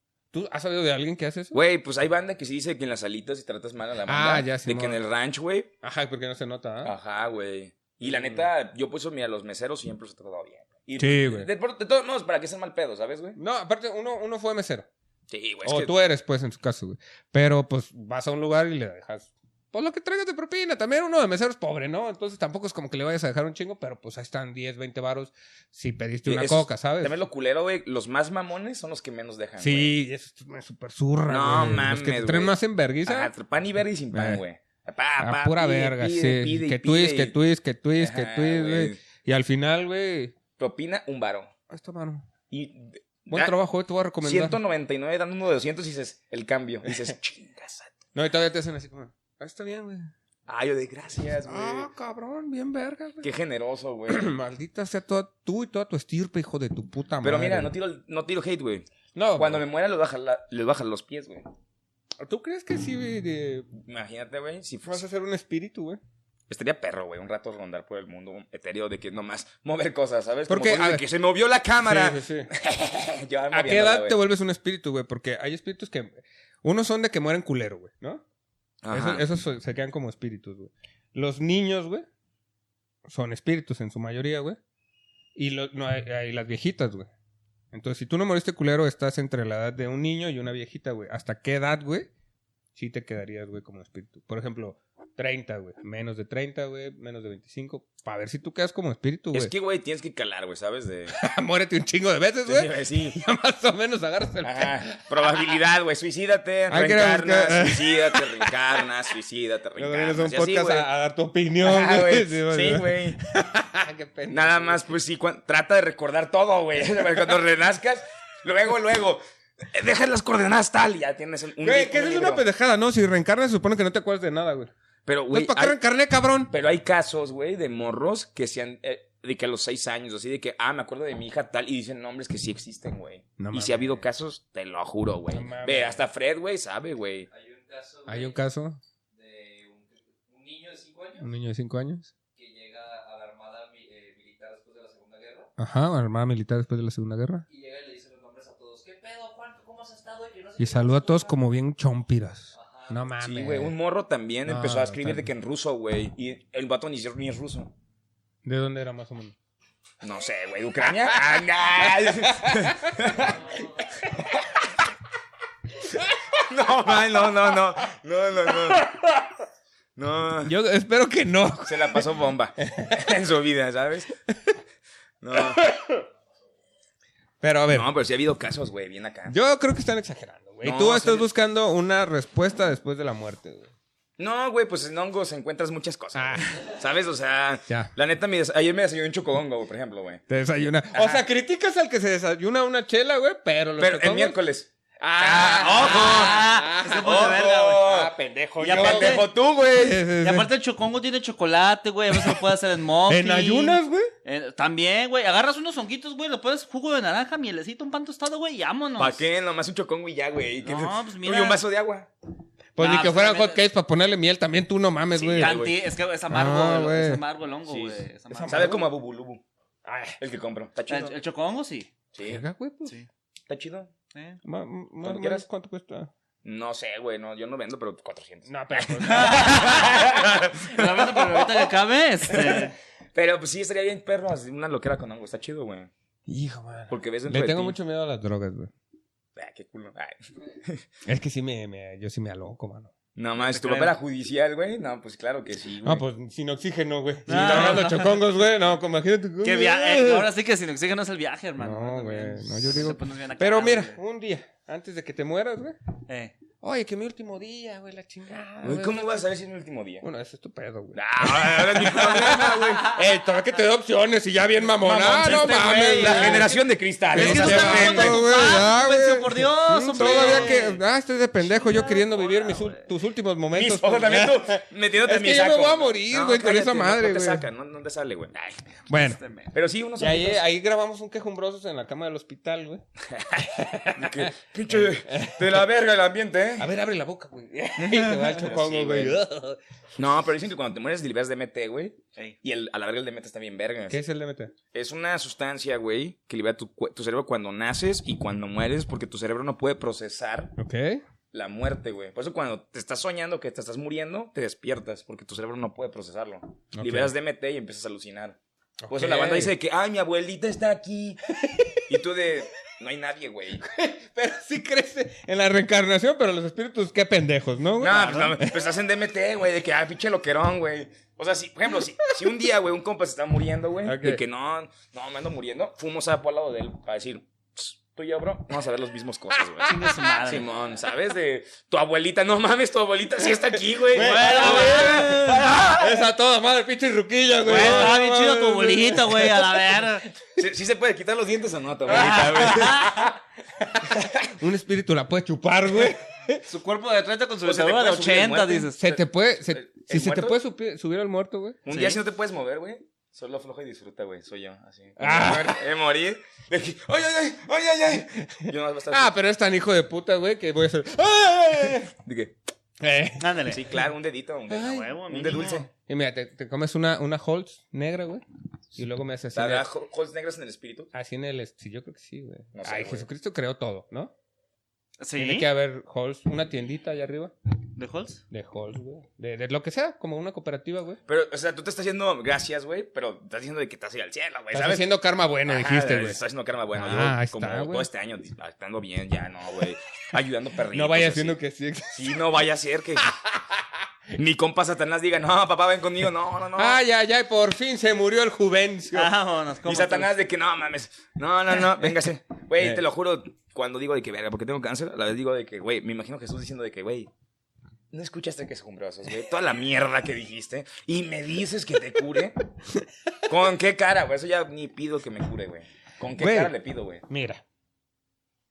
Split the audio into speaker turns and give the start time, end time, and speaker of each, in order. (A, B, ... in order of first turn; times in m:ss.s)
0:00.3-0:01.6 A
0:01.5-0:05.7 B
0:04.1-0:05.0 A
0:05.8-0:06.9 A
0:06.8-0:13.4 B
0:08.0-0:08.4 A
0:11.0-0:11.5 A
0:13.4-0:14.9 A
0:15.3-0:15.9 B
0:15.6-0:27.2 A
0:26.2-0:29.9 B
0:29.6-0:33.3 A
0:31.3-0:32.5 B
0:33.0-0:37.3 B
0:34.1-0:34.4 A
0:35.2-0:40.3 A
0:38.0-0:39.0 B
0:40.6-0:41.5 B
0:41.7-0:42.3 A
0:42.5-0:43.5 B
0:43.3-0:44.6 A
0:44.2-0:48.0 B
0:48.1-0:50.1 A
0:50.5-0:51.9 B
0:51.4-0:53.3 A
0:53.2-0:54.3 B
0:54.1-0:57.7 A
0:57.2-1:01.4 B
0:59.1-0:59.6 A
1:02.2-1:03.7 A
1:03.8-1:05.0 B
1:04.8-1:06.0 A
1:06.5-1:14.2 B
1:10.5-1:11.0 A
1:11.8-1:12.5 A
1:13.5-1:18.2 A
1:18.8-1:19.2 B
1:18.9-1:22.0 A
1:23.0-1:24.6 A
1:25.3-1:27.1 A
1:27.7-1:32.1 A
1:32.7-1:39.5 A
1:39.3-1:41.2 B
1:41.1-1:44.9 A
1:42.4-1:43.2 B
1:44.4-1:50.9 B
1:46.7-1:48.5 A
1:49.8-1:54.8 A
1:51.6-1:53.2 B
1:54.3-2:02.4 B
2:01.6-2:04.7 A
2:05.0-2:05.8 B
2:05.3-2:06.5 A
2:06.5-2:17.3 B
2:13.4-2:14.0 A
2:15.3-2:16.0 A
2:17.3-2:18.4 C
2:18.1-2:18.8 A
2:19.1-2:21.3 C
2:21.2-2:22.1 A
2:22.3-2:25.5 C
2:25.6-2:27.4 A
2:27.5-2:31.3 C
2:30.6-2:33.7 A
2:32.5-2:33.0 C
2:33.2-2:37.7 B
2:34.5-2:35.3 A
2:38.4-2:39.3 A
2:40.0-2:43.5 B
2:41.8-2:42.9 A
2:44.3-2:44.6 B
2:46.4-2:48.9 B
2:48.6-2:49.3 A
2:50.0-2:50.5 B
2:50.4-2:52.0 A
2:51.6-2:54.1 B
2:52.6-2:53.0 A
2:55.2-2:55.7 B
2:55.3-2:56.0 A
2:57.4-2:57.9 A
2:57.7-2:59.4 B
2:59.3-3:03.7 A
3:00.6-3:01.3 B
3:04.2-3:10.2 B
3:06.1-3:06.6 A
3:10.3-3:14.4 A
3:10.9-3:11.2 B
3:13.8-3:20.1 B
3:15.0-3:20.5 A
3:15.5-3:17.8 D
3:18.6-3:19.2 D
3:20.2-3:29.2 D
3:22.1-3:22.4 A
3:23.1-3:24.1 A
3:29.0-3:32.1 B
3:30.6-3:31.6 D
3:32.8-3:35.6 A
3:32.8-3:33.6 D
3:35.1-3:35.8 B
3:35.4-3:38.8 D
3:36.3-3:37.2 A
3:37.6-3:39.4 B
3:38.3-3:38.9 A
3:39.8-3:40.2 A
3:40.2-3:41.2 B
3:40.9-3:41.9 D
3:42.1-3:42.4 B
3:42.2-3:42.9 A
3:43.5-3:43.9 B
3:44.1-3:44.4 D
3:44.4-3:46.1 A
3:45.0-3:45.4 B
3:46.4-3:51.5 B
3:48.5-3:50.2 A
3:49.0-3:52.7 D
3:52.3-3:55.9 B
3:56.3-3:58.7 A
3:56.9-3:57.8 B
3:59.4-4:00.8 B
4:01.0-4:02.9 A
4:03.1-4:06.0 B
4:03.4-4:03.9 D
4:05.8-4:10.3 A
4:07.3-4:08.2 D
4:09.4-4:14.0 D
4:11.6-4:15.8 A
4:16.1-4:16.3 D
4:16.6-4:19.1 A
4:18.6-4:20.0 B
4:20.0-4:26.5 A
4:20.9-4:23.0 B
4:24.8-4:28.3 B
4:25.2-4:26.6 D
4:27.1-4:37.4 A
4:27.1-4:30.8 D
4:29.9-4:30.6 B
4:31.4-4:32.8 D
4:33.5-4:38.6 B
4:38.9-4:39.2 A
4:39.2-4:39.5 D
4:39.5-4:40.4 B
4:40.0-4:42.8 A
4:43.1-4:46.7 B
4:43.5-4:45.6 A
4:46.6-4:49.6 A
4:48.2-4:49.2 B
4:50.0-4:54.0 B
4:53.9-4:54.5 A
4:54.7-5:00.5 B
5:00.6-5:01.0 A
5:01.3-5:08.4 B
5:06.7-5:07.1 A
5:08.8-5:09.5 A
5:08.9-5:13.6 B
5:11.4-5:11.8 A
5:13.6-5:18.6 A
5:17.8-5:36.0 B
5:23.8-5:24.2 A
5:29.4-5:30.2 A
5:29.6-5:30.4 D
5:33.9-5:39.8 A
5:33.9-5:35.5 D
5:37.4-5:40.1 D
5:37.6-5:37.9 B
5:40.4-5:43.1 B
5:41.9-5:43.1 D
5:43.7-5:46.4 A
5:43.9-5:44.3 B
5:46.4-5:48.8 D
5:47.4-5:50.4 B
5:48.8-5:51.6 A
5:51.6-5:59.1 B
5:51.7-5:52.0 D
5:55.0-5:55.6 A
5:58.4-6:01.9 A
6:01.6-6:02.3 B
6:02.8-6:03.8 A
6:03.2-6:03.6 D
6:03.5-6:05.7 B
6:04.5-6:04.9 A
6:04.6-6:05.7 D
6:05.8-6:08.2 A
6:08.8-6:09.7 A
6:09.3-6:10.9 B
6:10.9-6:14.1 A
6:12.5-6:13.0 B
6:15.0-6:15.5 D
6:15.2-6:17.3 A
6:17.8-6:18.2 D
6:18.3-6:21.0 A
6:21.1-6:24.9 B
6:24.5-6:26.2 A
6:25.4-6:31.4 B
6:26.7-6:27.9 A
6:30.7-6:32.2 A
6:31.9-6:33.2 B
6:33.0-6:33.6 A
6:34.1-6:36.8 B
6:36.5-6:39.1 A
6:38.9-6:40.1 D
6:39.6-6:47.1 B
6:47.9-6:52.4 B
6:53.2-6:57.0 B
6:56.2-6:56.5 A
6:57.1-6:57.4 A